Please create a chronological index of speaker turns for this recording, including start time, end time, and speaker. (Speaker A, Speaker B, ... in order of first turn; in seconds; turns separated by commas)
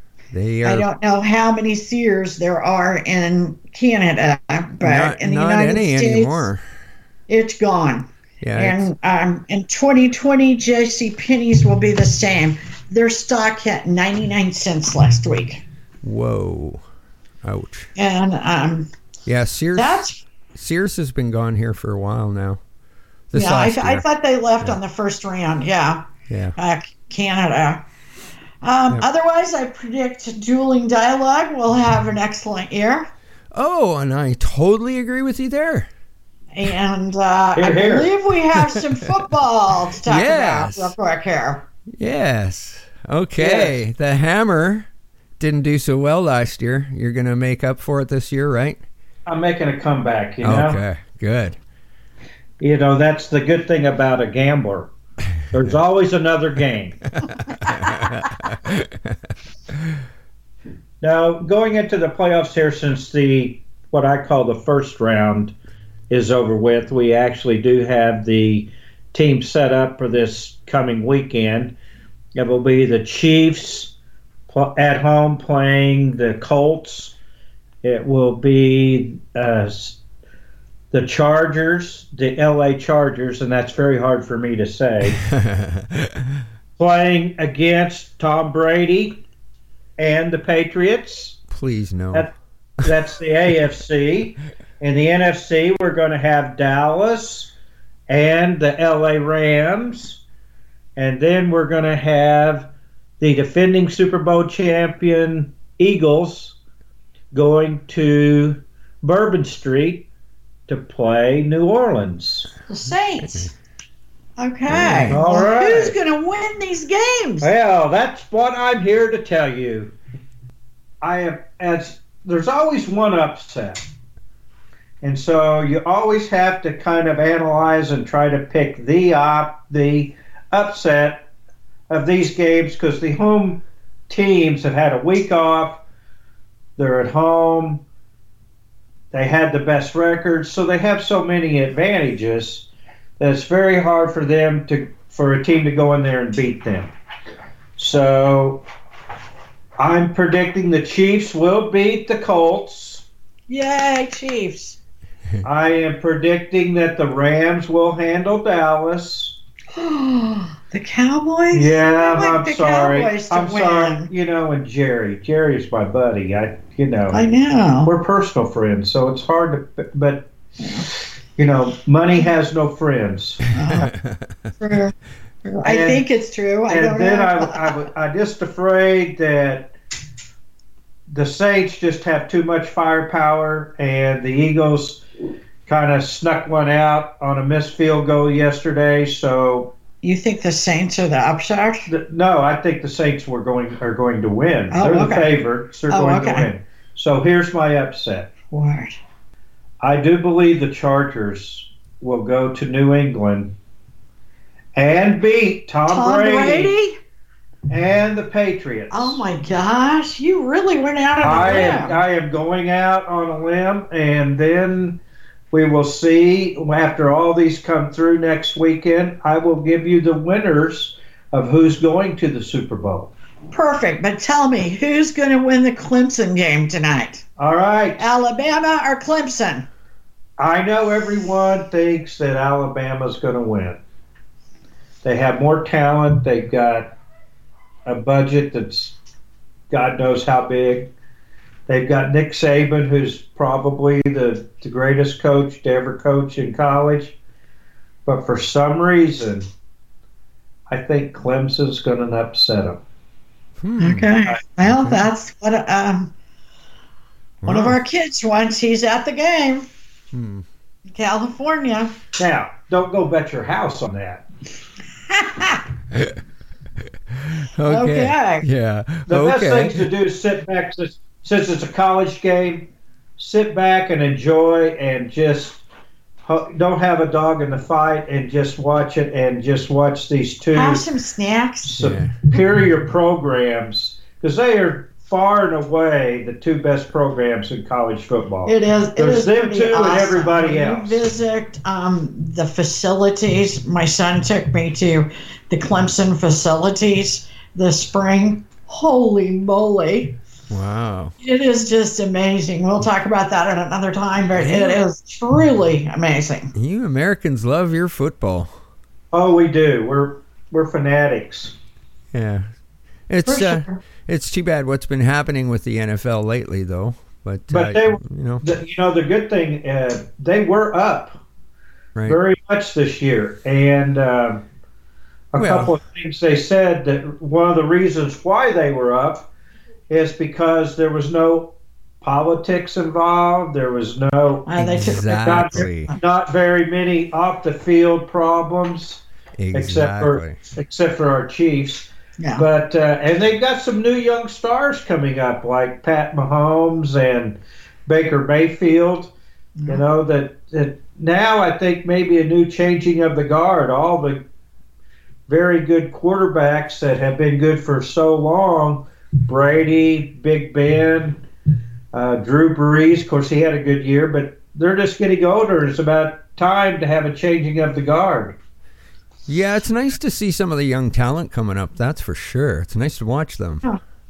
Speaker A: 0.3-0.9, Speaker B: 0.6-6.5, Speaker A: 4.8-6.6, Speaker B: 7.3-15.6, Speaker A: 8.4-8.9, Speaker A: 16.0-16.8, Speaker A: 17.4-17.9, Speaker B: 18.0-18.9, Speaker A: 19.3-22.6, Speaker B: 19.8-20.2, Speaker A: 23.3-24.1, Speaker B: 23.3-26.1, Speaker A: 26.3-26.6, Speaker B: 26.6-27.9, Speaker B: 28.6-33.1, Speaker A: 33.5-35.9, Speaker B: 36.5-41.7, Speaker C: 37.6-38.1, Speaker A: 38.5-38.8, Speaker A: 40.1-41.0, Speaker A: 41.9-44.9, Speaker C: 43.4-43.8, Speaker A: 45.4-48.8, Speaker C: 49.3-50.8, Speaker A: 50.4-51.6, Speaker C: 52.6-54.9, Speaker C: 55.5-57.0, Speaker A: 57.7-59.2, Speaker C: 61.0-65.5, Speaker C: 66.1-71.8, Speaker C: 72.4-73.9, Speaker C: 74.5-77.2, Speaker C: 77.8-80.0, Speaker C: 80.9-85.2, Speaker A: 85.3-86.4, Speaker C: 86.8-89.2, Speaker C: 90.0-91.4, Speaker A: 91.5-92.3, Speaker C: 92.1-97.5, Speaker C: 98.1-100.2, Speaker C: 101.0-106.6, Speaker C: 107.3-110.1, Speaker C: 110.7-112.5, Speaker B: 112.7-113.5, Speaker B: 114.4-117.5, Speaker A: 114.7-115.2, Speaker C: 115.1-116.0, Speaker C: 117.4-119.9, Speaker C: 121.0-123.8, Speaker C: 125.0-131.3, Speaker C: 131.9-135.8, Speaker C: 136.8-137.8, Speaker C: 139.1-142.7, Speaker C: 143.2-146.9, Speaker C: 147.8-148.6, Speaker C: 149.8-153.1, Speaker B: 153.5-154.8, Speaker C: 155.4-159.4, Speaker B: 159.7-164.1, Speaker C: 161.5-167.2, Speaker B: 167.1-167.9, Speaker C: 167.8-170.3, Speaker B: 170.6-170.9, Speaker C: 171.4-173.5, Speaker B: 173.5-173.9, Speaker A: 173.7-174.3, Speaker B: 174.6-174.9, Speaker B: 175.4-177.8, Speaker C: 175.6-176.0, Speaker C: 176.7-179.8, Speaker C: 181.1-185.0, Speaker C: 185.7-189.7, Speaker B: 190.0-191.9, Speaker C: 191.9-198.3, Speaker B: 194.7-195.3, Speaker B: 195.9-196.5, Speaker B: 198.5-199.0, Speaker C: 199.8-203.5, Speaker C: 204.8-206.8, Speaker B: 205.9-207.0, Speaker C: 207.7-209.2, Speaker B: 208.9-212.0, Speaker C: 211.2-215.0, Speaker C: 215.5-223.1, Speaker B: 223.5-227.2, Speaker C: 227.4-228.0, Speaker B: 228.0-229.7, Speaker C: 230.4-233.8, Speaker C: 235.0-236.9, Speaker C: 237.9-239.0, Speaker C: 239.7-240.9, Speaker C: 241.7-247.2, Speaker C: 248.1-249.5, Speaker C: 250.7-252.8, Speaker A: 253.6-254.1, Speaker B: 253.8-256.1, Speaker A: 254.6-255.0, Speaker A: 257.4-257.8, Speaker B: 257.5-259.7, Speaker A: 260.1-260.5, Speaker B: 260.9-262.0, Speaker C: 262.2-264.2, Speaker B: 265.1-265.6, Speaker A: 265.9-266.2, Speaker A: 267.1-269.9, Speaker B: 267.7-268.5, Speaker C: 269.1-275.6, Speaker C: 276.2-280.9, Speaker B: 280.5-281.8, Speaker C: 281.6-291.0, Speaker A: 281.8-282.1, Speaker B: 288.5-300.2, Speaker A: 300.5-301.1, Speaker B: 301.2-306.5, Speaker A: 304.4-304.8, Speaker A: 306.5-308.5, Speaker C: 309.1-311.6, Speaker A: 312.1-312.5, Speaker A: 313.1-318.4, Speaker B: 313.3-313.8, Speaker C: 317.5-321.2, Speaker C: 322.1-324.4, Speaker C: 325.3-329.3, Speaker A: 325.4-325.7, Speaker C: 329.9-349.1, Speaker B: 334.5-336.0, Speaker A: 334.6-335.9, Speaker A: 339.4-340.4, Speaker B: 342.2-342.5, Speaker C: 349.7-354.2, Speaker C: 355.3-361.2, Speaker C: 361.9-368.4, Speaker A: 369.3-373.6